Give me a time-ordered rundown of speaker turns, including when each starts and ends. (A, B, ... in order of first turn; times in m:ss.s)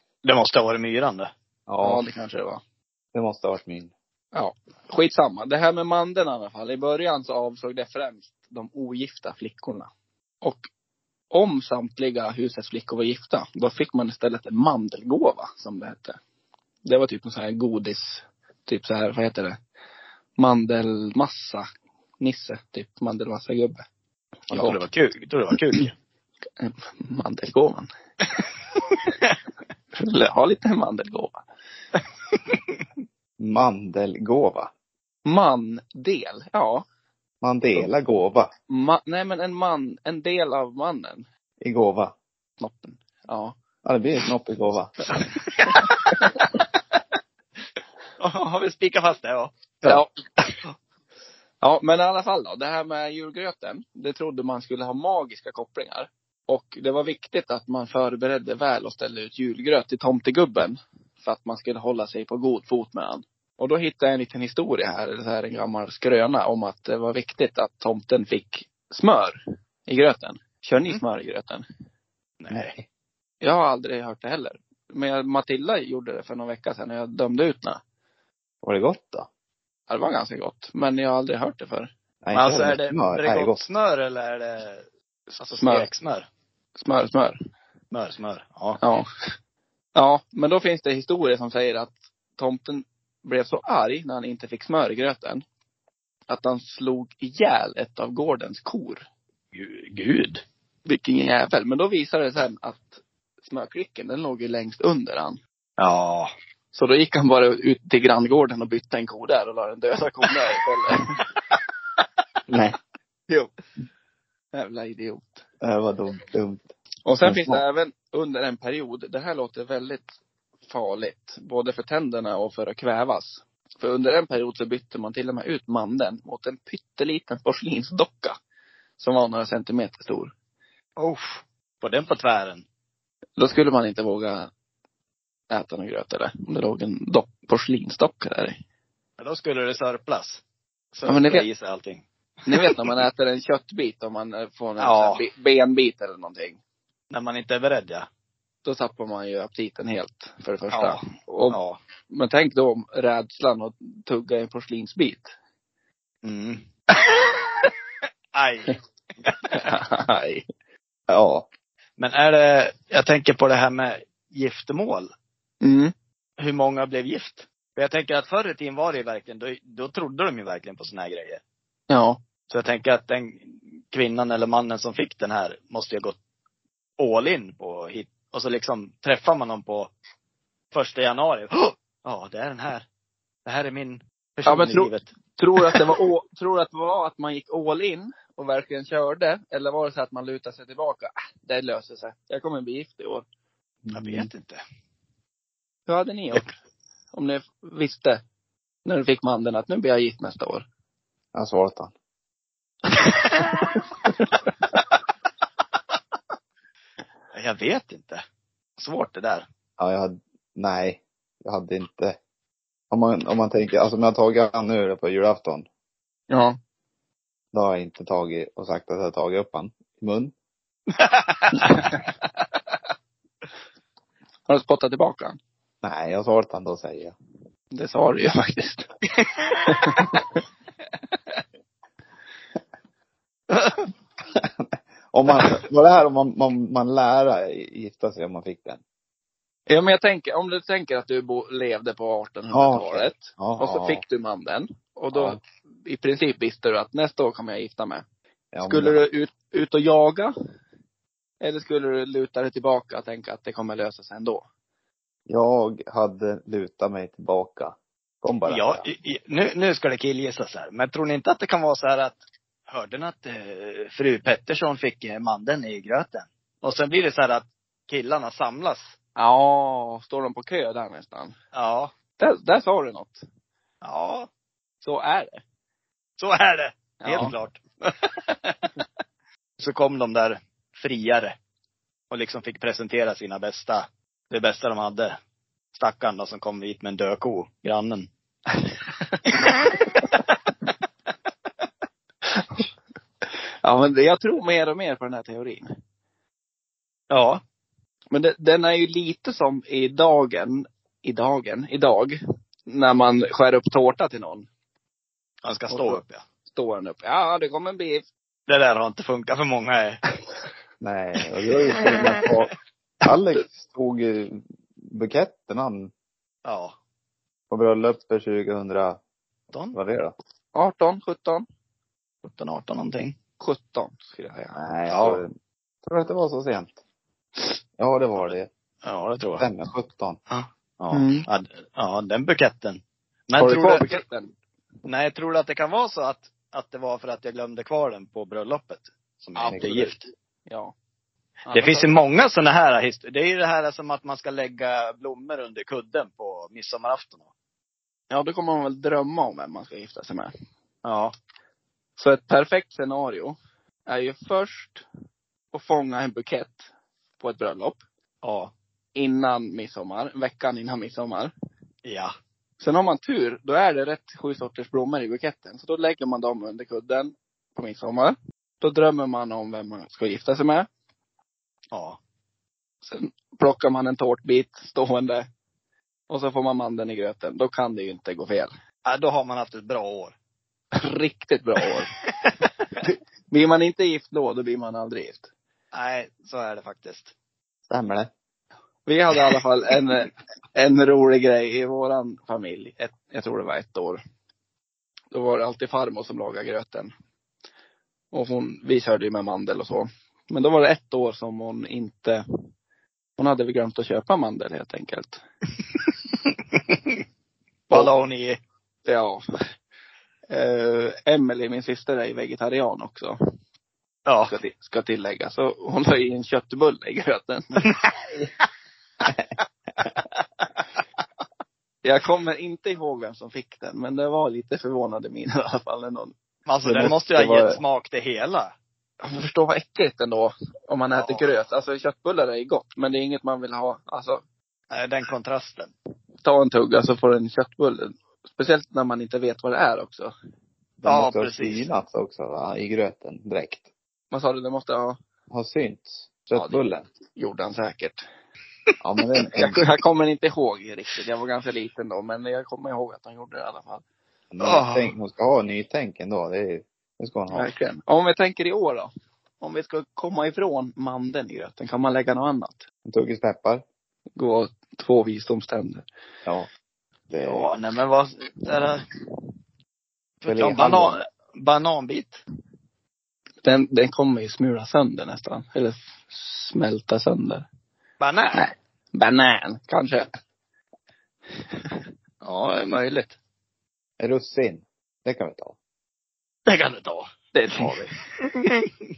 0:00.2-0:01.3 A
0:01.7-0:02.0 B
0:01.8-0:02.6 C
0:03.1-0:03.9 B
0:04.3-0:09.9 C
0:10.4-0:10.7 C
0:11.3-0:16.2 C
0:16.9-0:19.6 C
0:20.4-0:21.6 C
0:22.2-0:23.8 C
0:24.5-0:25.9 A
0:24.5-0:24.8 C
0:26.6-0:27.9 C
0:30.0-0:31.4 C
0:33.4-0:34.7 B
0:35.3-0:36.8 C
0:37.4-0:38.5 B
0:38.7-0:41.3 C
0:41.6-0:42.1 B
0:42.6-0:43.6 C
0:43.8-0:44.9 B
0:45.1-0:46.4 A
0:45.7-0:46.4 C
0:48.2-0:50.7 A
0:51.6-1:11.6 C
1:12.4-1:12.7 A
1:12.5-1:12.9 B
1:13.4-1:17.8 C
1:18.6-1:19.3 B
1:19.9-1:21.9 C
1:22.2-1:23.6 B
1:22.3-1:24.8 A
1:25.4-1:26.3 A
1:25.4-1:25.9 C
1:26.8-1:27.4 C
1:27.9-1:28.8 A
1:28.8-1:29.0 C
1:30.0-1:35.4 C
1:36.3-1:39.0 C
1:39.5-1:40.4 A
1:40.9-1:45.4 C
1:45.8-1:46.3 A
1:46.7-1:51.2 C
1:52.5-1:52.8 B
1:54.5-1:55.4 C
1:55.6-1:56.7 B
1:57.0-2:08.4 C
1:57.2-1:57.6 B
2:09.0-2:10.3 C
2:11.0-2:12.6 A
2:13.4-2:14.5 C
2:15.5-2:18.6 C
2:19.2-2:20.4 A
2:21.0-2:22.9 A
2:21.0-2:21.5 C
2:22.5-2:26.6 C
2:24.8-2:25.3 A
2:27.1-2:28.1 A
2:28.6-2:35.3 C
2:30.7-2:31.8 A
2:36.2-2:37.1 A
2:38.4-2:38.8 A
2:39.5-2:40.4 C
2:41.1-2:41.5 B
2:42.0-2:45.1 A
2:45.6-2:45.9 C
2:46.4-2:51.4 A
2:51.9-2:52.2 C
2:52.5-2:56.2 A
2:57.0-2:59.9 A
3:00.7-3:02.8 A
3:03.4-3:05.1 A
3:04.5-3:13.2 C
3:05.7-3:05.9 A
3:13.8-3:14.3 B
3:13.9-3:14.6 A
3:15.9-3:16.5 C
3:17.1-3:18.2 C
3:18.8-3:20.7 C
3:21.4-3:21.9 B
3:23.0-3:24.5 C
3:27.3-3:28.2 A
3:28.8-3:29.5 A
3:29.8-3:32.2 B
3:32.9-3:35.7 B
3:36.3-3:36.6 C
3:37.5-3:40.3 B
3:41.0-3:42.0 A
3:41.6-3:42.0 C
3:44.5-3:45.4 C
3:45.8-3:47.1 B
3:47.7-3:48.9 C
3:49.5-3:50.4 C
3:54.3-3:58.8 B
3:59.7-4:08.0 C
4:02.5-4:04.0 B
4:05.1-4:05.4 B
4:08.5-4:09.1 B
4:08.6-4:10.3 C
4:11.4-4:14.4 C
4:15.3-4:18.9 B
4:18.5-4:29.0 A
4:29.2-4:31.4 C
4:31.5-4:31.9 A
4:32.2-4:33.2 C
4:33.8-4:34.3 A
4:34.8-4:35.4 C
4:36.2-4:37.6 A
4:37.0-4:37.3 C
4:37.8-4:38.5 C
4:39.6-4:41.4 A
4:42.1-4:45.2 A
4:45.8-4:48.1 A
4:52.4-4:52.6 C
4:53.6-4:55.7 C
4:57.1-4:57.4 A
4:58.1-5:02.2 C
5:02.7-5:04.5 C
5:05.4-5:06.2 A
5:05.7-5:08.0 C
5:08.5-5:10.0 A
5:10.8-5:15.9 B
5:16.4-5:16.8 A
5:17.5-5:19.0 B
5:19.5-5:19.8 A
5:19.7-5:20.1 B
5:20.6-5:21.4 C
5:22.2-5:23.2 A
5:23.4-5:24.6 C
5:24.6-5:25.3 B
5:24.9-5:25.2 A
5:25.9-5:26.8 B
5:27.8-5:28.5 B
5:28.2-5:29.4 A
5:29.4-5:30.2 B
5:30.3-5:33.9 A
5:30.9-5:31.3 C
5:33.4-5:34.3 C
5:34.9-5:40.0 A
5:39.4-5:40.7 C
5:39.4-5:39.8 B
5:41.5-5:41.9 C
5:41.5-5:47.3 A
5:48.1-5:50.3 C
5:50.8-5:51.1 A
5:52.0-5:54.8 C
5:55.5-5:57.8 C
5:58.2-5:58.5 A
5:59.0-6:01.3 C
6:01.8-6:02.1 A
6:02.6-6:10.7 C
6:11.7-6:12.0 A
6:12.8-6:15.3 C
6:16.1-6:18.5 C
6:18.9-6:20.1 A
6:20.9-6:21.9 C
6:21.9-6:22.3 A
6:22.8-6:25.3 C
6:25.7-6:27.1 A
6:27.7-6:28.1 B
6:28.9-6:34.0 C
6:35.1-6:36.9 C
6:38.1-6:42.2 C
6:43.2-6:45.2 C
6:47.7-6:48.4 A
6:48.9-6:49.2 C
6:50.3-6:53.1 C
6:54.1-6:54.3 A
6:54.3-6:57.7 C
7:01.8-7:06.1 C
7:06.5-7:08.5 A
7:06.6-7:07.6 B
7:09.0-7:14.2 C
7:11.0-7:11.3 A
7:14.7-7:15.7 A
7:16.2-7:20.1 C
7:20.8-7:21.7 A
7:20.8-7:23.7 B
7:24.1-7:25.0 C
7:25.3-7:26.9 B
7:26.4-7:26.6 C
7:27.2-7:28.0 C
7:28.8-7:29.6 B
7:29.4-7:33.8 C
7:34.3-7:37.5 B
7:34.4-7:34.9 A
7:37.3-7:38.9 C
7:39.4-7:42.6 C
7:42.9-7:43.6 B
7:44.2-7:45.8 C
7:47.1-7:47.5 C
7:47.2-7:48.8 A
7:50.2-7:52.2 A
7:50.2-7:51.0 B
7:53.4-7:57.5 C
7:58.0-7:58.5 A
7:58.3-8:00.1 C
8:02.2-8:03.2 A
8:04.0-8:05.6 B
8:06.5-8:08.7 A
8:07.3-8:08.0 C